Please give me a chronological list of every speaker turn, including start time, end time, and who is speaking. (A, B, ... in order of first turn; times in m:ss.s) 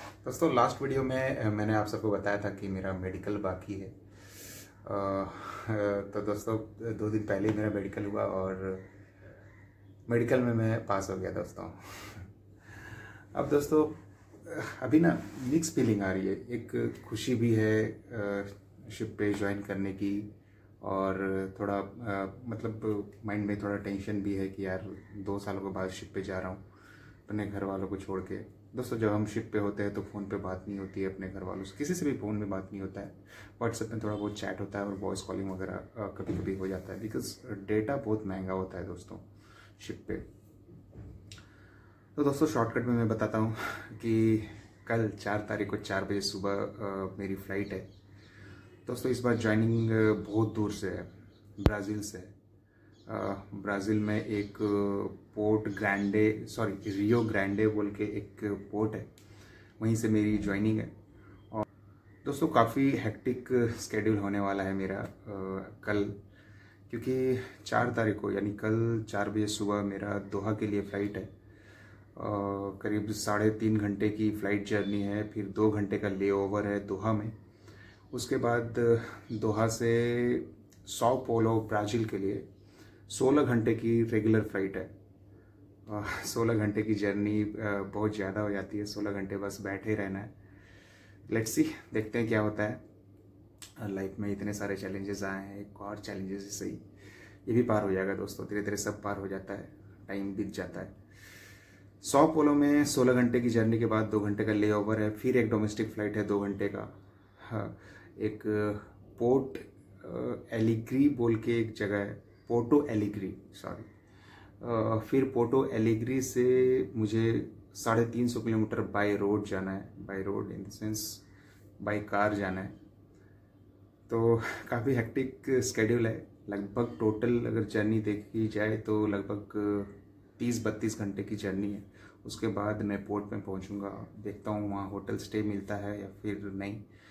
0:00.2-0:03.9 A
0:04.8-0:08.9 A
0:10.1-0:12.2 A
0:13.3-0:26.6 A
0:27.3-0:39.2 A
0:39.8-0:40.3 A
0:42.2-0:47.9 A
0:48.8-0:52.3 A
0:53.1-0:59.1 A
0:59.8-1:00.9 A
1:02.2-1:06.2 A
1:06.9-1:11.3 A
1:12.2-1:17.3 A
1:18.1-1:22.4 A
1:23.1-1:24.9 A
1:25.8-1:30.3 A
1:31.3-1:32.8 A
1:33.8-1:36.8 A
1:37.4-1:40.9 A
1:42.0-1:53.9 A
1:54.6-2:01.2 A
2:01.8-2:02.7 A
2:04.1-2:16.8 A